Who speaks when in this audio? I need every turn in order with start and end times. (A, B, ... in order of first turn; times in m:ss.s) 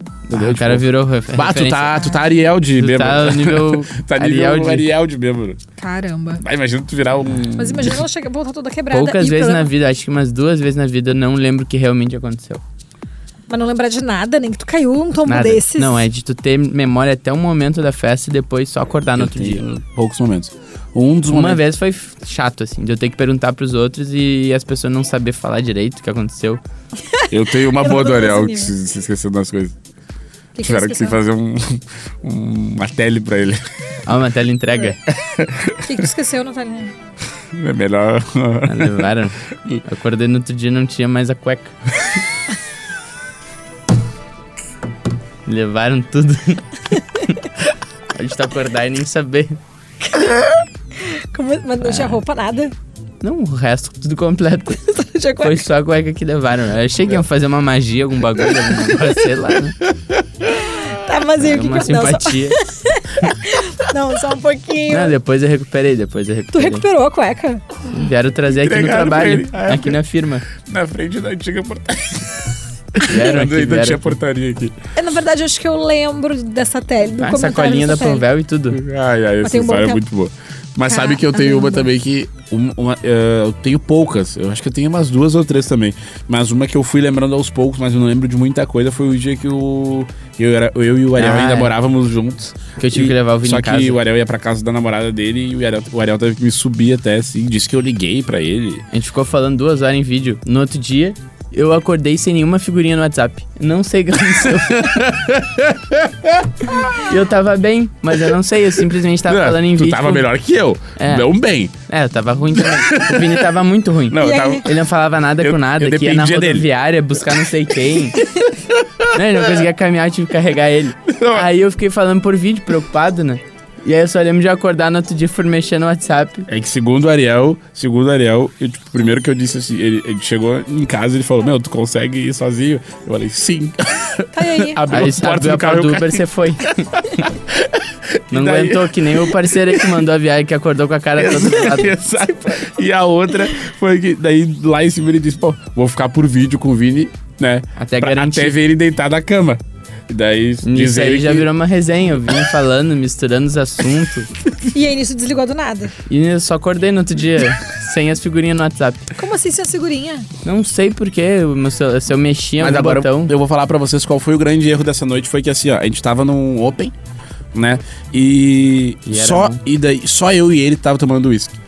0:00.3-0:05.6 A
0:00.3-0:02.2 B
0:02.8-0:04.9 B
0:05.8-0:06.4 C
0:06.4-0:08.0 A
0:07.6-0:09.7 C
0:08.9-0:12.6 B
0:13.5-0:16.1 C
0:15.3-0:19.6 B
0:19.2-0:21.6 A
0:21.3-0:26.6 B
0:27.1-0:28.7 C
0:27.3-0:29.8 A
0:30.6-0:31.2 C
0:30.6-0:33.6 A
0:34.0-0:35.0 B
0:35.1-0:36.0 A
0:35.8-0:36.9 C
0:37.5-0:39.1 A
0:38.7-0:41.8 B
0:45.5-0:46.6 B
0:48.1-0:49.6 B
0:50.0-0:52.8 C
0:51.8-0:52.2 B
0:53.2-0:54.8 B
0:54.8-0:55.7 C
0:55.4-0:59.8 B
0:59.9-1:00.5 A
1:00.7-1:05.2 C
1:01.4-1:02.6 B
1:04.9-1:06.8 B
1:06.5-1:07.6 C
1:07.9-1:10.5 B
1:08.5-1:10.0 A
1:10.5-1:14.8 A
1:13.0-1:14.2 B
1:15.0-1:18.2 C
1:17.2-1:18.8 B
1:18.7-1:38.8 A
1:19.4-1:20.0 C
1:20.9-1:21.9 C
1:31.2-1:31.7 B
1:32.8-1:34.0 B
1:38.9-1:45.0 B
1:44.5-1:46.8 A
1:47.0-1:50.3 B
1:49.3-1:51.8 A
1:51.0-1:51.3 B
1:51.9-1:58.3 B
1:52.6-1:53.5 A
1:54.1-1:54.7 A
1:54.2-1:54.6 C
1:55.4-1:56.7 A
1:58.7-1:59.6 A
1:59.1-2:06.5 B
2:01.1-2:01.5 A
2:06.5-2:16.7 A
2:14.3-2:14.8 C
2:14.9-2:17.0 B
2:17.5-2:19.9 A
2:18.3-2:21.9 B
2:21.2-2:31.5 A
2:22.2-2:22.7 C
2:27.8-2:28.6 B
2:30.6-2:34.3 B
2:34.7-2:35.9 C
2:36.1-2:39.1 B
2:39.2-2:40.3 C
2:40.4-2:43.3 B
2:42.6-2:46.9 A
2:47.5-2:51.6 A
2:49.1-2:49.6 B